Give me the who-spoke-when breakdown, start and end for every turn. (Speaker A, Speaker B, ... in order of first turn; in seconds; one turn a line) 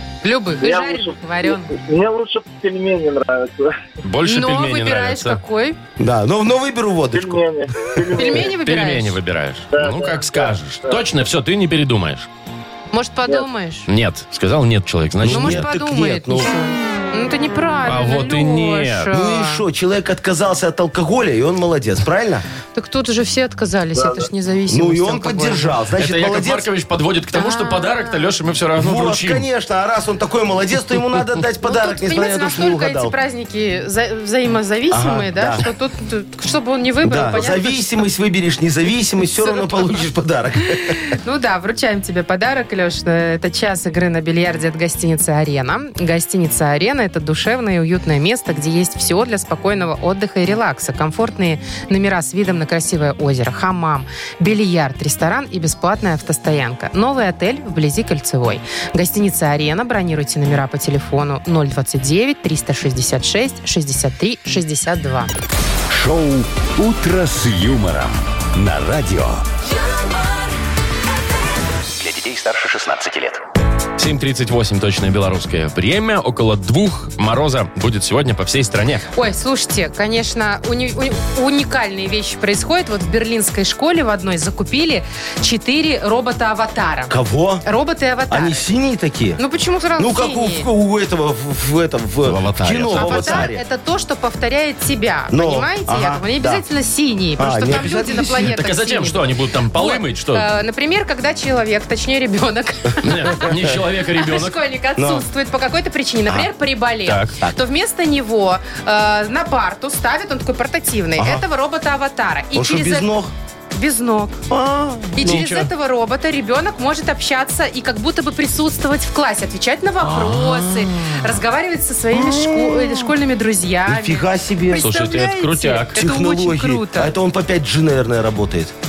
Speaker A: 0.2-1.7
Speaker B: 0.6-3.8
Speaker C: 4.0-5.4
Speaker A: 4.2-5.8
Speaker D: 6.0-8.0
Speaker B: 7.1-8.6
Speaker A: 8.1-9.2
Speaker C: 8.5-12.3
Speaker B: 9.7-11.0
Speaker A: 12.9-13.9
Speaker C: 13.9-15.7
Speaker D: 15.2-16.5
Speaker A: 15.3-19.6
Speaker C: 17.8-19.1
Speaker D: 19.1-22.4
Speaker A: 22.7-25.8
Speaker B: 23.9-24.3
Speaker D: 24.7-26.7
Speaker C: 26.0-29.4
Speaker A: 27.3-28.3
Speaker D: 28.7-33.1
Speaker A: 31.6-37.9
Speaker D: 34.9-35.6
Speaker D: 37.0-41.0
Speaker A: 39.4-39.8
Speaker A: 40.8-65.3
Speaker E: 65.9-69.4
Speaker E: 72.0-73.4
Speaker C: 74.0-79.0
Speaker A: 79.1-88.7
Speaker D: 87.1-87.6
Speaker D: 88.3-89.4
Speaker A: 89.4-90.7
Speaker D: 90.0-93.6
Speaker C: 92.2-93.5
Speaker A: 92.9-99.2
Speaker D: 95.3-96.6
Speaker D: 97.4-98.5
Speaker C: 97.7-100.5
Speaker A: 99.7-113.2
Speaker C: 103.0-104.6
Speaker D: 105.0-105.2
Speaker C: 107.0-107.3
Speaker D: 111.2-111.4
Speaker D: 112.5-113.3
Speaker A: 113.7-114.5
Speaker D: 114.5-115.5
Speaker A: 115.1-127.1
Speaker C: 115.2-115.7
Speaker D: 120.0-121.4
Speaker D: 122.1-123.1
Speaker D: 123.9-124.9
Speaker C: 124.8-126.0
Speaker D: 126.0-128.7